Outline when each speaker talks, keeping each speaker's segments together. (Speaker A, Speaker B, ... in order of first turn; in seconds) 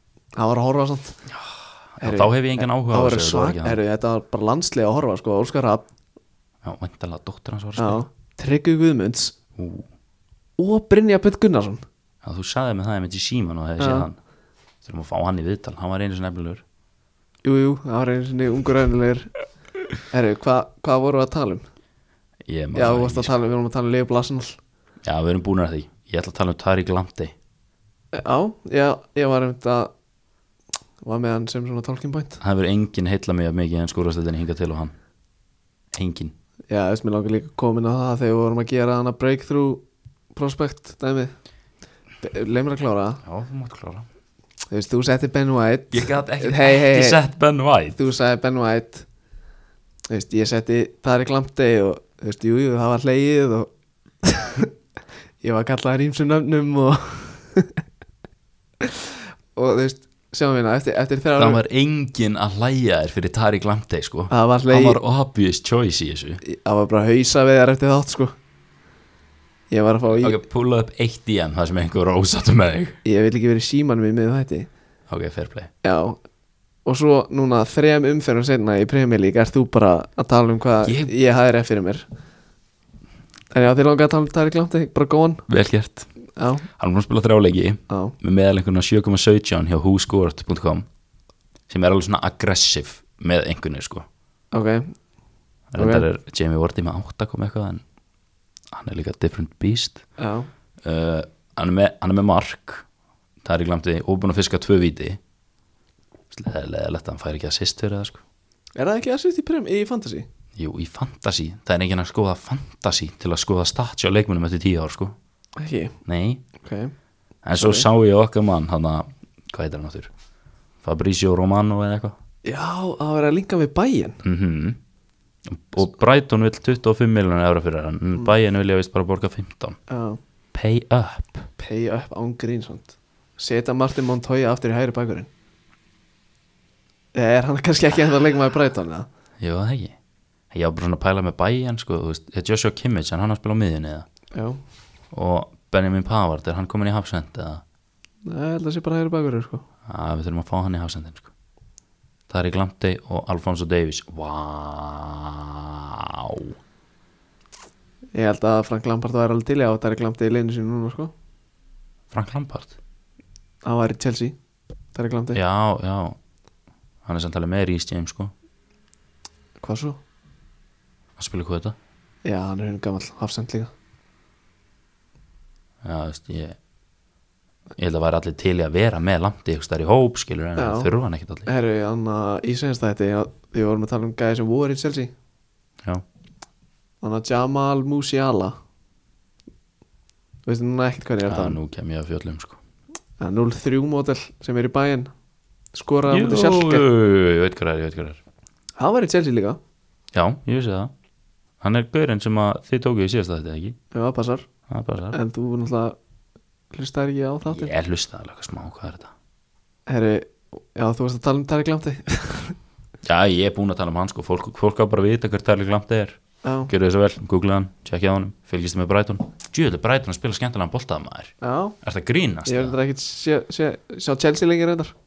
Speaker A: 0.3-1.2, 2.0-5.8, 7.8-9.3, 10.6-11.8, 13.8-14.1, 17.4-19.3, 20.1-21.6, 22.7-24.6, 28.1-29.9, 31.0-32.4, 36.7-39.8, 40.3-41.3, 42.2-43.2, 44.7-47.2, 48.0-49.1, 50.1-53.7, 54.2-54.7, 55.4-57.8, 58.8-61.6, 64.3-65.0, 66.4-68.3, 69.7-70.4, 73.0-74.7, 75.8-76.2, 76.8-82.1, 83.5-85.5, 86.4-86.7, 87.9-88.2, 94.5-95.0, 95.8-96.0, 100.2-100.5, 108.8-110.3, 115.6-116.0, 116.6-116.9, 117.5-117.9, 122.5-124.2, 129.9-130.2, 131.6-135.3, 137.2-139.1, 144.3-144.6, 148.3-149.6, 158.2-161.1, 163.6-164.4, 164.9-165.4, 169.6-170.0, 172.2-173.7, 180.6-180.9, 181.5-185.1, 187.0-188.6, 190.5-191.6, 193.2-195.1, 195.7-196.9, 198.8-199.6, 203.9-204.5, 205.1-206.0, 206.7-207.7, 209.9-212.6, 216.4-216.7, 221.4-221.8, 222.5-224.9
Speaker B: 1.3-3.8, 6.6-8.0, 9.6-9.9, 12.2-14.2, 14.8-16.6, 22.5-23.3, 25.0-27.4, 32.4-34.9, 35.9-36.4, 43.2-44.1, 45.9-48.0, 61.4-66.4, 70.1-73.0, 75.1-75.7, 80.8-81.1, 85.5-86.1, 86.8-90.9, 91.7-94.0, 95.7-97.8, 98.7-100.0, 100.8-102.8, 103.4-105.2, 106.3-108.2, 110.6-115.2, 116.1-116.4, 117.4-120.1, 120.8-122.2, 124.2-124.8, 125.5-129.8, 130.5-131.5, 139.4-140.0, 140.5-144.1, 145.1-147.6, 149.9-151.3, 152.3-156.6, 162.1-162.8, 165.3-166.2, 167.1-168.3, 171.2-171.8, 175.8-176.6, 177.8-181.5, 191.3-192.6, 196.1-198.2, 200.1-200.9, 201.6-203.8, 204.7-205.2, 207.5-209.1, 213.0-222.8